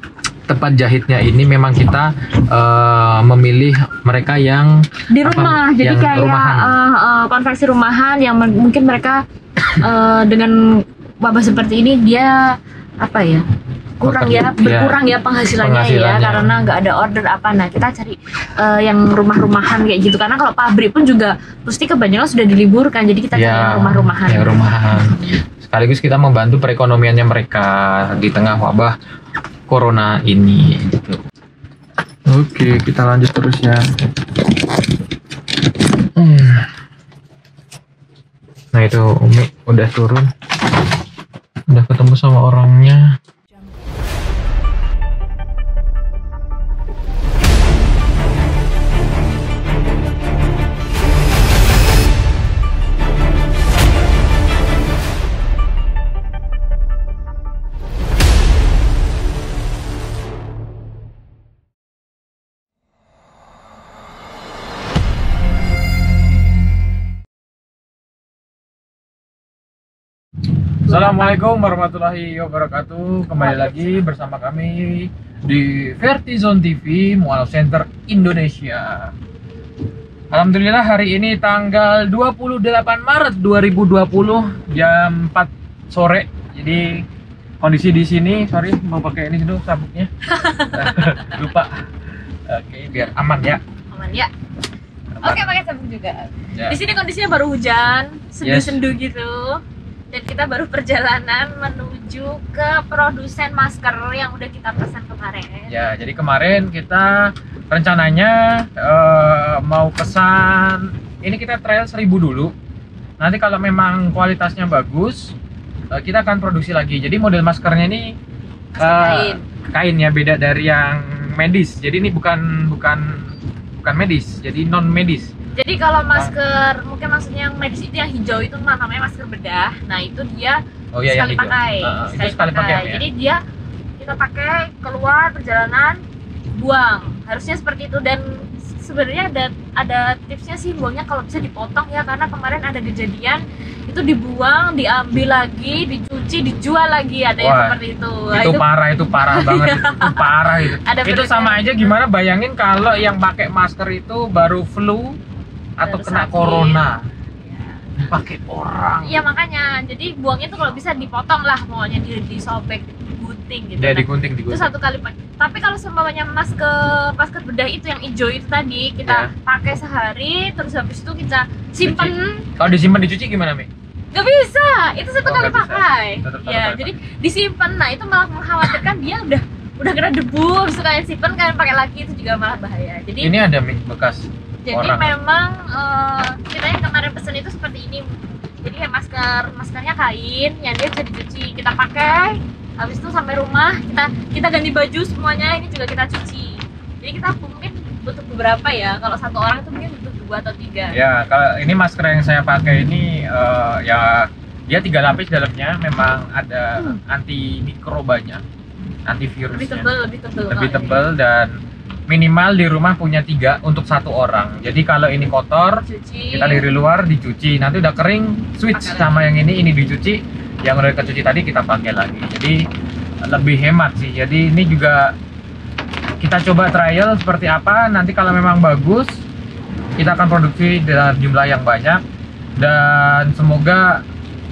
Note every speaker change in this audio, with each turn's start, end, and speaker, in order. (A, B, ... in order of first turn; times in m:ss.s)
0:00.5-0:06.8 A
0:05.1-0:12.4 B
0:13.0-0:13.4 B
0:14.0-0:24.6 B
0:14.0-0:15.0 A
0:15.6-0:16.7 A
0:23.3-0:29.0 A
0:29.7-0:31.2 A
0:32.3-0:33.8 A
0:36.2-0:36.7 A
0:38.7-0:40.3 A
0:41.7-0:43.1 A
1:10.8-1:19.1 A
1:10.9-1:11.4 B
1:13.3-1:14.0 B
1:20.3-1:27.0 A
1:27.6-1:31.8 A
1:30.3-1:31.0 B
1:32.5-1:33.6 A
1:33.9-1:34.3 B
1:35.2-1:35.5 A
1:35.2-1:45.7 B
1:38.4-1:38.8 A
1:45.7-1:52.5 A
1:53.2-1:55.4 A
1:55.9-1:58.1 A
1:58.8-1:59.4 B
1:58.8-2:05.3 A
2:05.6-2:13.4 B
2:10.9-2:13.0 A
2:14.0-2:16.0 B
2:16.6-2:32.0 B
2:27.4-2:27.8 A
2:28.3-2:35.2 A
2:35.8-2:37.0 A
2:35.8-2:36.8 B
2:37.4-2:37.9 B
2:38.0-2:39.2 A
2:39.0-2:52.6 B
2:43.8-2:44.7 A
2:49.0-2:49.3 A
2:51.8-2:53.7 A
2:54.1-3:03.3 B
2:55.2-2:56.9 A
3:03.2-3:05.1 A
3:04.6-3:08.1 B
3:08.6-3:21.0 B
3:20.9-3:28.4 A
3:29.1-3:29.9 A
3:29.5-3:31.0 B
3:30.5-3:31.6 A
3:32.1-3:42.6 A
3:35.8-3:36.7 B
3:38.7-3:39.3 B
3:43.3-3:45.1 A
3:46.2-3:49.2 A
3:50.0-3:52.0 A
3:52.6-3:54.0 A